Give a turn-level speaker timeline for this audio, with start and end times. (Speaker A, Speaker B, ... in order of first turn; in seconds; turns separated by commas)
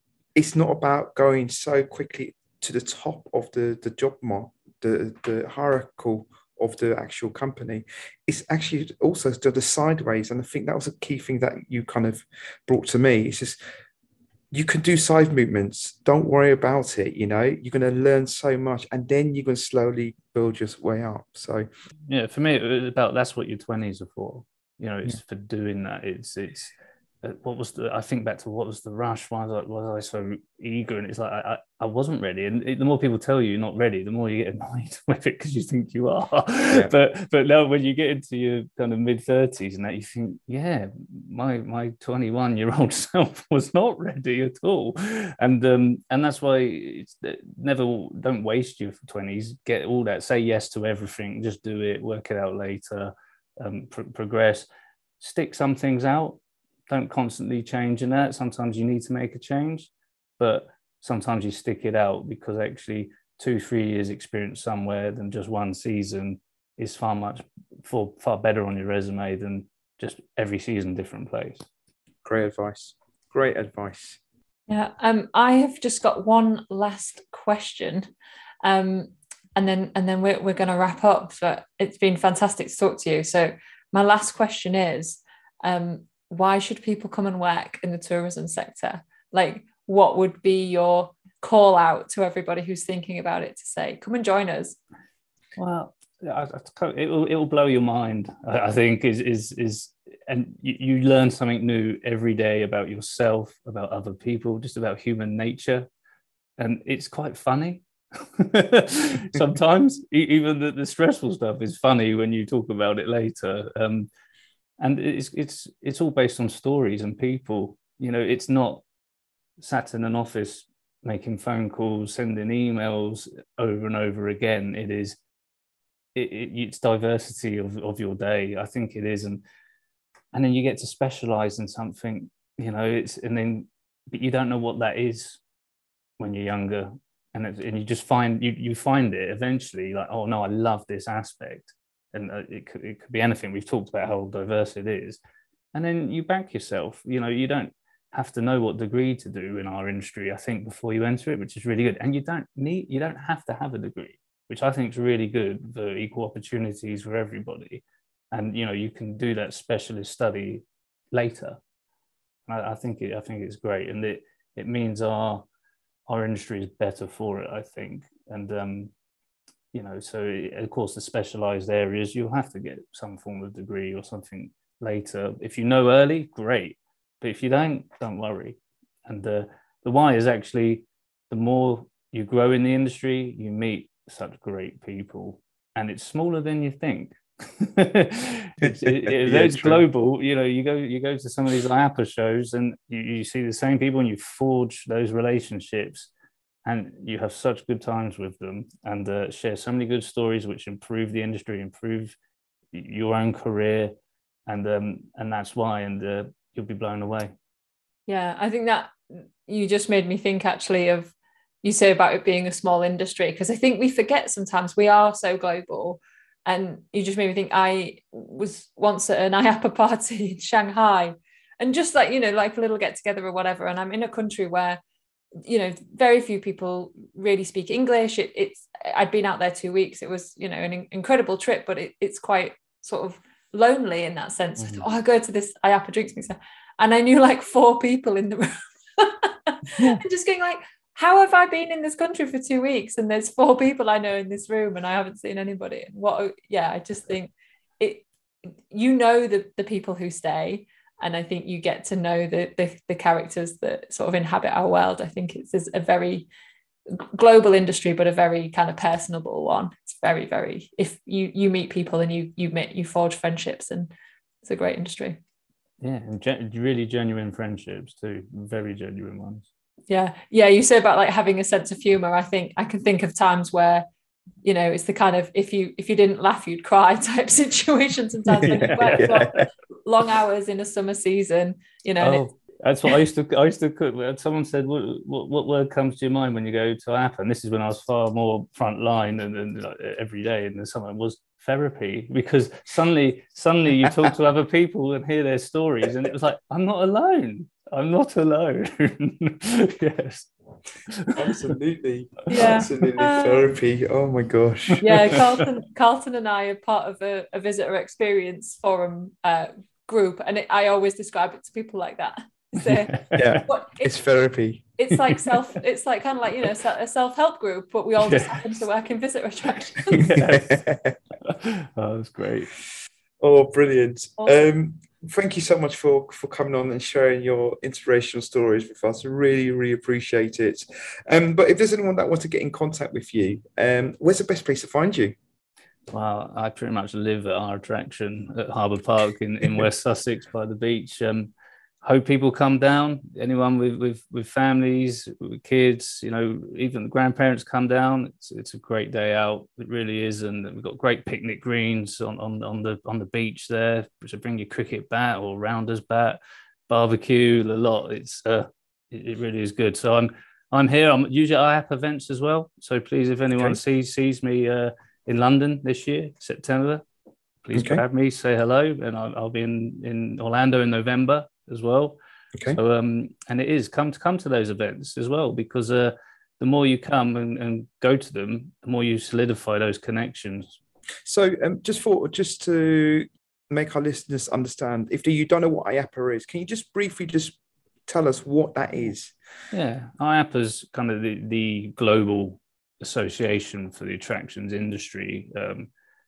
Speaker A: 0.3-13.6, Speaker A: 14.5-21.7, Speaker B: 22.1-54.7, Speaker B: 55.2-56.4, Speaker B: 56.9-71.7, Speaker A: 72.2-74.2, Speaker C: 74.7-78.1, Speaker C: 78.6-94.8, Speaker B: 95.6-105.9, Speaker B: 106.6-114.1, Speaker B: 114.8-118.8, Speaker B: 119.6-125.2, Speaker B: 126.2-129.4, Speaker B: 130.3-135.4, Speaker B: 136.2-145.2, Speaker B: 145.7-161.6, Speaker B: 162.5-165.4, Speaker B: 166.1-168.9, Speaker B: 169.7-196.1, Speaker A: 188.6-189.8, Speaker B: 196.7-202.2, Speaker B: 202.7-203.9, Speaker B: 204.5-207.3, Speaker C: 208.1-211.1, Speaker C: 211.6-224.8, Speaker C: 225.4-248.1, Speaker C: 248.7-256.3, Speaker C: 256.9-263.9, Speaker C: 264.4-265.2, Speaker B: 265.8-269.5, Speaker C: 269.9-273.9, Speaker C: 274.4-282.2, Speaker B: 278.4-279.4, Speaker A: 278.4-279.4, Speaker B: 282.0-300.3, Speaker B: 300.9-301.4, Speaker A: 301.1-305.2, Speaker C: 302.3-303.5, Speaker C: 304.8-313.9, Speaker B: 312.7-313.4, Speaker A: 313.1-314.6, Speaker C: 314.8-320.2, Speaker B: 318.0-318.4, Speaker B: 320.0-320.6, Speaker A: 320.1-321.0, Speaker B: 321.2-322.5, Speaker A: 323.2-335.1, Speaker B: 335.9-341.3, Speaker B: 341.8-366.8, Speaker B: 367.4-380.6, Speaker A: 367.5-367.8, Speaker A: 381.1-389.1, Speaker B: 389.5-395.7